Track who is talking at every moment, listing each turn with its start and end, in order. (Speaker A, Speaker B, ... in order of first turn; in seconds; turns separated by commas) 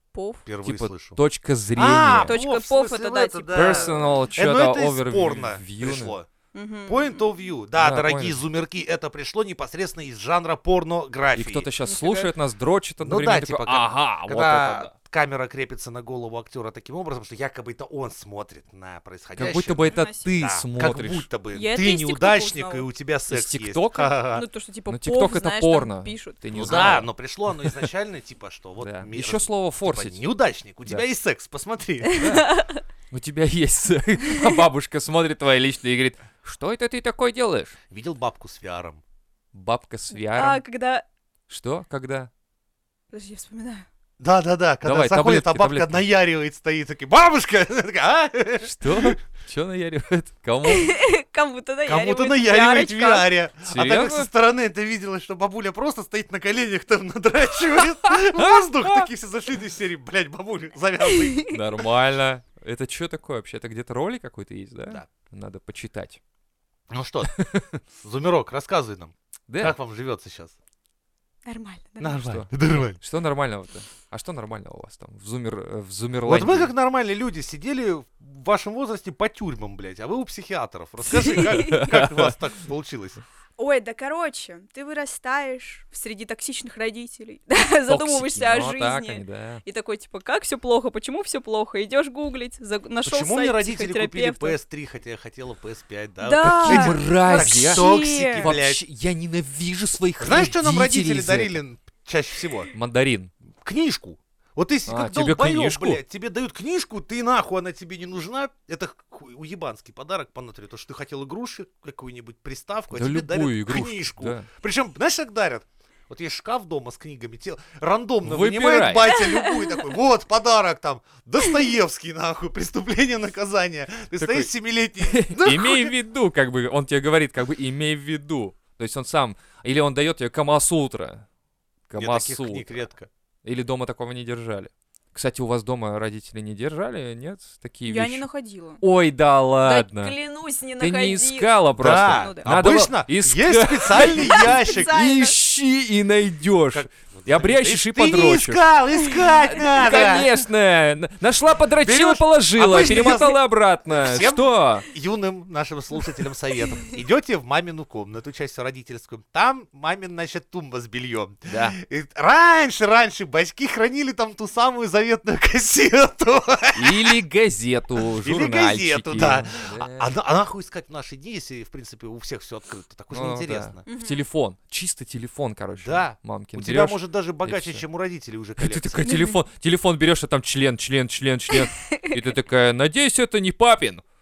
Speaker A: 0.1-0.5, Speaker B: 0.5-1.2, Speaker C: 0.6-2.4, Speaker B: 1.8-6.3, Speaker A: 2.2-4.0, Speaker C: 3.5-6.2, Speaker A: 6.5-7.2, Speaker B: 6.9-11.7, Speaker C: 7.8-8.4, Speaker C: 11.3-14.9, Speaker A: 11.8-12.3, Speaker B: 13.0-24.4, Speaker C: 19.4-21.3, Speaker A: 19.8-20.4, Speaker A: 21.5-22.9, Speaker C: 23.3-24.1, Speaker A: 24.3-26.8, Speaker C: 24.9-27.1, Speaker B: 26.5-32.2, Speaker C: 28.8-30.2, Speaker A: 32.1-32.8, Speaker C: 32.2-32.5, Speaker C: 33.1-37.8, Speaker B: 37.9-39.0, Speaker C: 39.5-40.6, Speaker A: 40.1-41.0, Speaker C: 41.5-42.3, Speaker A: 43.1-43.9, Speaker B: 44.2-49.2, Speaker C: 44.8-46.0, Speaker C: 48.6-50.9, Speaker A: 50.7-53.3, Speaker B: 51.9-61.5, Speaker C: 53.6-54.3, Speaker C: 58.1-59.1, Speaker A: 61.1-61.6, Speaker C: 61.5-66.2, Speaker B: 66.9-67.3, Speaker C: 67.3-67.8, Speaker B: 68.0-70.5, Speaker C: 69.5-69.8, Speaker A: 71.5-72.2, Speaker B: 72.0-73.0, Speaker C: 72.1-76.7, Speaker B: 76.3-83.2, Speaker A: 81.1-81.9, Speaker C: 81.4-82.4, Speaker A: 83.6-94.6, Speaker C: 87.9-89.6, Speaker B: 93.0-98.8, Speaker A: 96.2-98.5, Speaker C: 96.4-97.9, Speaker C: 98.4-101.6, Speaker B: 100.2-102.7, Speaker C: 102.7-103.3, Speaker B: 103.6-125.9, Speaker C: 104.9-106.0, Speaker C: 112.9-114.5, Speaker C: 118.2-119.2, Speaker A: 119.2-119.5, Speaker C: 124.2-124.5, Speaker C: 125.0-131.2, Speaker C: 131.9-132.9, Speaker B: 132.0-133.1, Speaker C: 133.4-138.2, Speaker A: 137.9-138.8, Speaker C: 138.8-140.1, Speaker A: 139.6-142.5, Speaker C: 140.8-148.6, Speaker B: 141.8-145.1, Speaker A: 144.1-145.4, Speaker B: 146.7-150.4, Speaker A: 149.1-149.4, Speaker C: 149.5-154.9, Speaker B: 151.7-167.2, Speaker C: 161.5-161.8, Speaker C: 166.8-170.1, Speaker B: 168.2-173.8, Speaker C: 173.1-177.8, Speaker A: 173.9-174.2, Speaker B: 175.8-179.2, Speaker C: 178.6-184.0, Speaker A: 179.1-179.4, Speaker A: 181.7-182.2